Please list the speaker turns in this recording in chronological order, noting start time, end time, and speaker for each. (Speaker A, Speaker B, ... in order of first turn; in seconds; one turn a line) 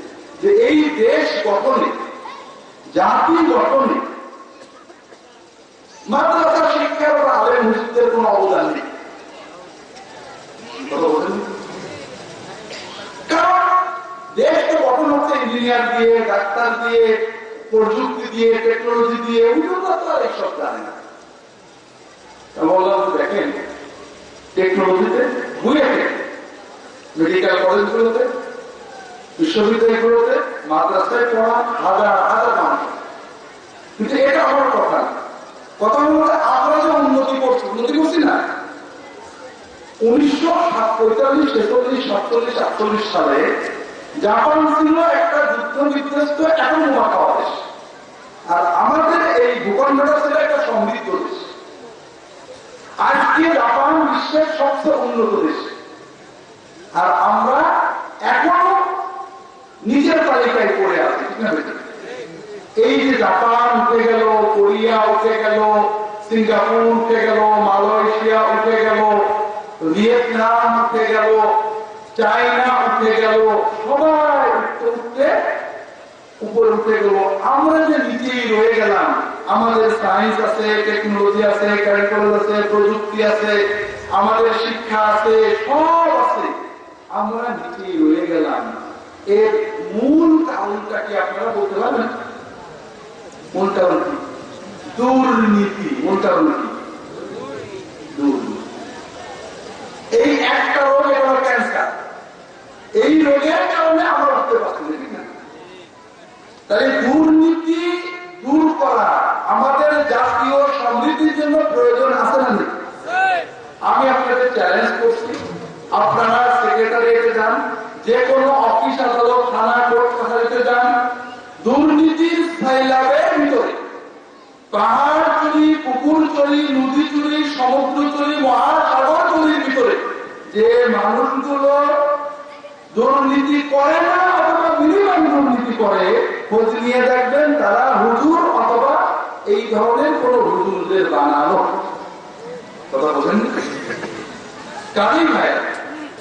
Speaker A: 0.4-1.9
Speaker A: 2.9-4.0
Speaker A: 6.1-8.8
Speaker A: 10.9-11.5
Speaker A: 13.3-13.8
Speaker A: 14.3-20.9
Speaker A: 22.5-23.6
Speaker A: 24.5-26.2
Speaker A: 27.1-28.3
Speaker A: 29.4-33.0
Speaker A: 34.0-35.1
Speaker A: 35.8-38.4
Speaker A: 40.0-43.5
Speaker A: 44.2-47.6
Speaker A: 48.5-51.5
Speaker A: 53.0-55.7
Speaker A: 57.0-57.6
Speaker A: 58.3-58.9
Speaker A: 59.8-61.8
Speaker A: 62.8-71.5
Speaker A: 72.1-75.3
Speaker A: 76.4-83.6
Speaker A: 84.1-86.5
Speaker A: 87.1-92.1
Speaker A: 93.5-94.2
Speaker A: 94.9-96.8
Speaker A: 98.1-98.7
Speaker A: 100.2-101.9
Speaker A: 103.0-105.3
Speaker A: 106.7-112.7
Speaker A: 113.8-115.4
Speaker A: 115.9-120.9
Speaker A: 121.6-123.8
Speaker A: 124.7-131.9
Speaker A: 132.9-141.8
Speaker A: 142.9-143.6
Speaker A: 144.9-145.7